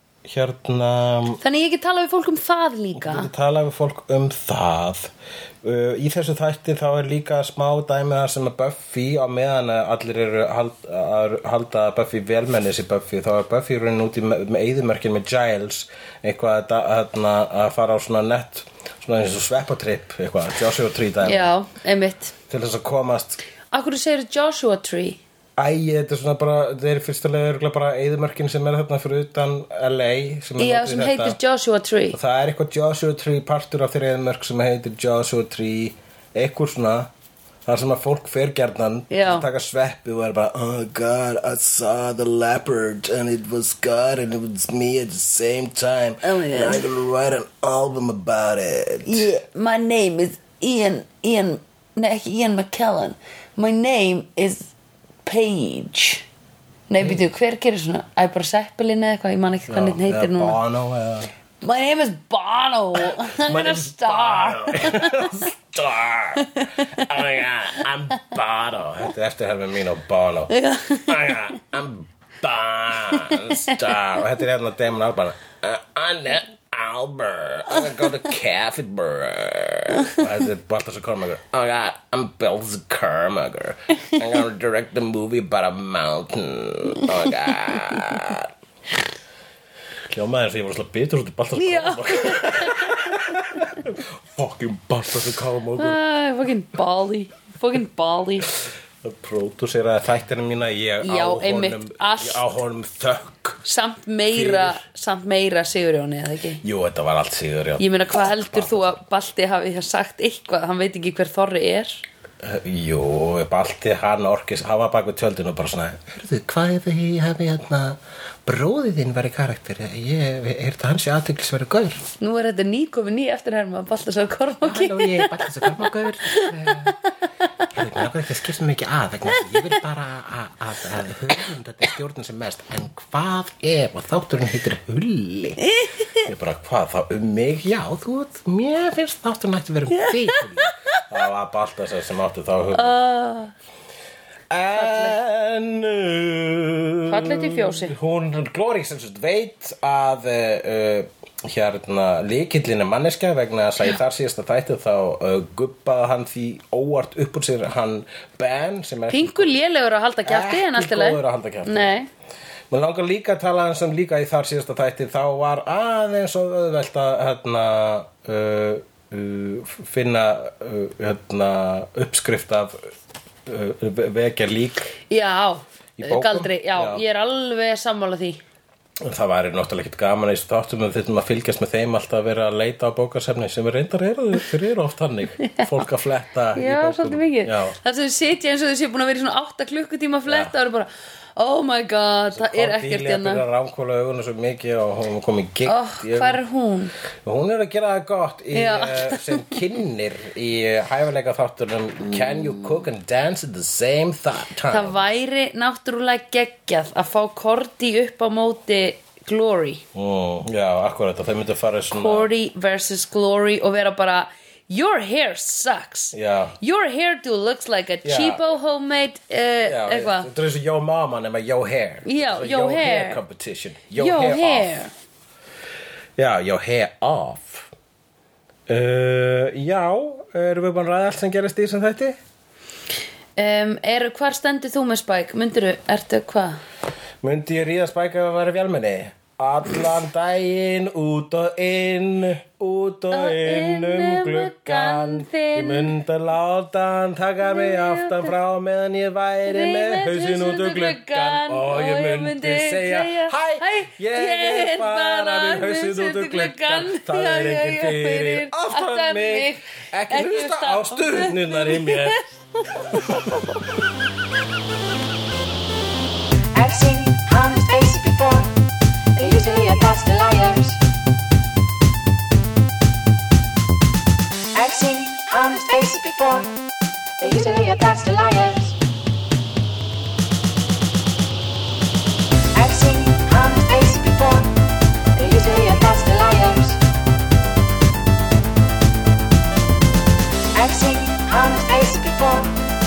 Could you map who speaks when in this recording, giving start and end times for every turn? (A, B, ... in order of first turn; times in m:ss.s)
0:00.2-0:01.4 A
0:01.4-0:03.3 B
0:02.9-0:05.1 A
0:05.6-0:21.5 A
0:21.2-0:22.3 B
0:22.5-0:23.4 A
0:23.7-0:25.2 B
0:25.6-0:31.4 A
0:30.6-0:32.2 B
0:32.1-0:37.1 A
0:37.6-0:49.3 A
0:39.1-0:39.5 B
0:46.2-0:46.9 B
0:49.0-0:54.7 B
0:55.2-0:56.2 B
0:56.9-1:00.6 B
0:59.7-1:01.3 A
1:01.6-1:05.4 B
1:03.0-1:28.5 A
1:06.4-1:07.1 B
1:10.5-1:11.4 B
1:13.3-1:13.8 B
1:30.1-1:36.0 A
1:31.5-1:33.4 B
1:35.8-1:38.5 B
1:39.0-1:43.6 A
1:41.0-1:42.4 B
1:43.6-1:46.6 B
1:44.3-1:44.8 A
1:46.6-1:49.0 A
1:47.8-1:52.0 B
1:52.4-2:02.0 A
2:02.2-2:06.5 B
2:04.6-2:07.0 A
2:07.7-2:15.6 A
2:09.3-2:09.7 B
2:15.6-2:16.2 B
2:16.2-2:23.0 A
2:19.9-2:21.0 B
2:22.7-2:23.5 B
2:24.5-2:39.5 A
2:24.7-2:25.2 B
2:27.0-2:27.9 B
2:39.1-2:42.1 B
2:40.2-2:41.9 A
2:42.7-2:52.8 A
2:53.4-2:54.9 A
2:55.1-2:58.4 B
2:56.0-2:57.0 A
2:59.0-3:07.8 A
3:05.4-3:05.7 B
3:06.5-3:13.4 B
3:10.2-3:10.5 A
3:12.3-3:16.4 A
3:15.6-3:16.9 B
3:17.2-3:25.0 A
3:18.5-3:19.6 B
3:22.0-3:22.5 B
3:24.7-3:29.8 B
3:29.9-3:32.3 A
3:31.9-3:40.3 B
3:36.1-3:36.5 A
3:38.0-3:38.4 A
3:39.6-3:44.8 A
3:42.0-3:43.2 B
3:44.0-3:44.9 B
3:46.2-3:47.7 A
3:48.7-3:52.2 A
3:53.4-3:56.6 B
3:57.2-4:22.2 A
4:03.1-4:05.9 B
4:07.4-4:08.3 B
4:09.4-4:22.2 B
4:22.9-4:23.5 A
4:26.5-4:28.5 C
4:29.2-4:30.8 C
4:34.5-4:36.5 C
4:37.2-4:38.8 C
4:42.5-4:44.5 C
4:45.1-4:46.8 C
4:50.5-4:52.5 C